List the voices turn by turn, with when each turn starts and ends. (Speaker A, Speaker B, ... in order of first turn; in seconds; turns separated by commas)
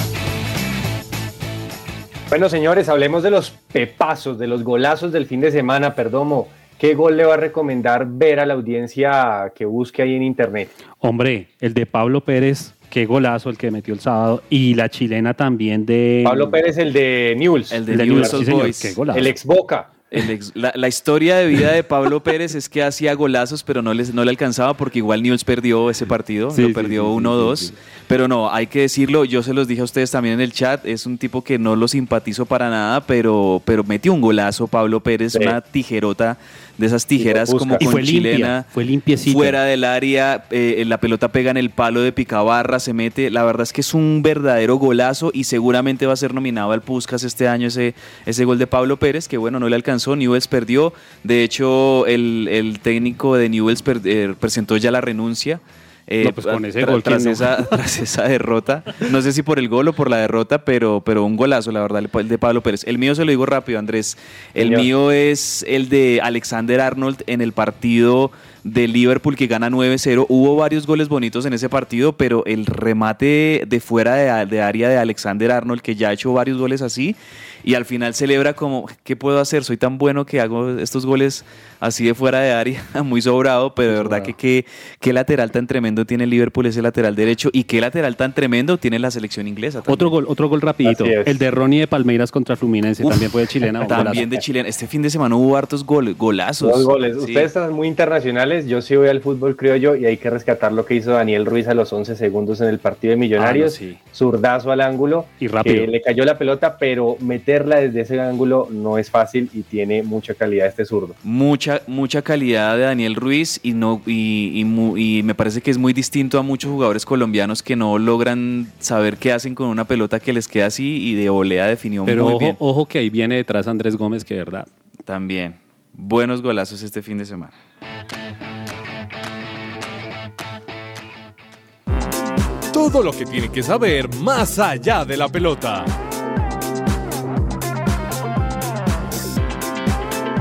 Speaker A: 2.3-10.7, Speaker B: 11.0-16.6, Speaker A: 16.2-18.4, Speaker C: 17.7-18.9, Speaker B: 17.9-19.3, Speaker A: 19.1-19.9, Speaker C: 20.1-38.6, Speaker B: 26.5-27.7, Speaker A: 37.2-37.9, Speaker B: 37.3-39.6, Speaker C: 39.2-90.1, Speaker B: 56.2-57.6, Speaker A: 64.6-64.9, Speaker B: 83.9-84.3, Speaker B: 89.9-94.2, Speaker A: 90.8-91.4, Speaker C: 93.9-97.5, Speaker A: 96.6-111.2, Speaker B: 103.4-104.0, Speaker B: 105.4-105.9, Speaker C: 111.2-122.6, Speaker B: 122.0-124.7, Speaker C: 125.0-127.5, Speaker D: 132.7-135.9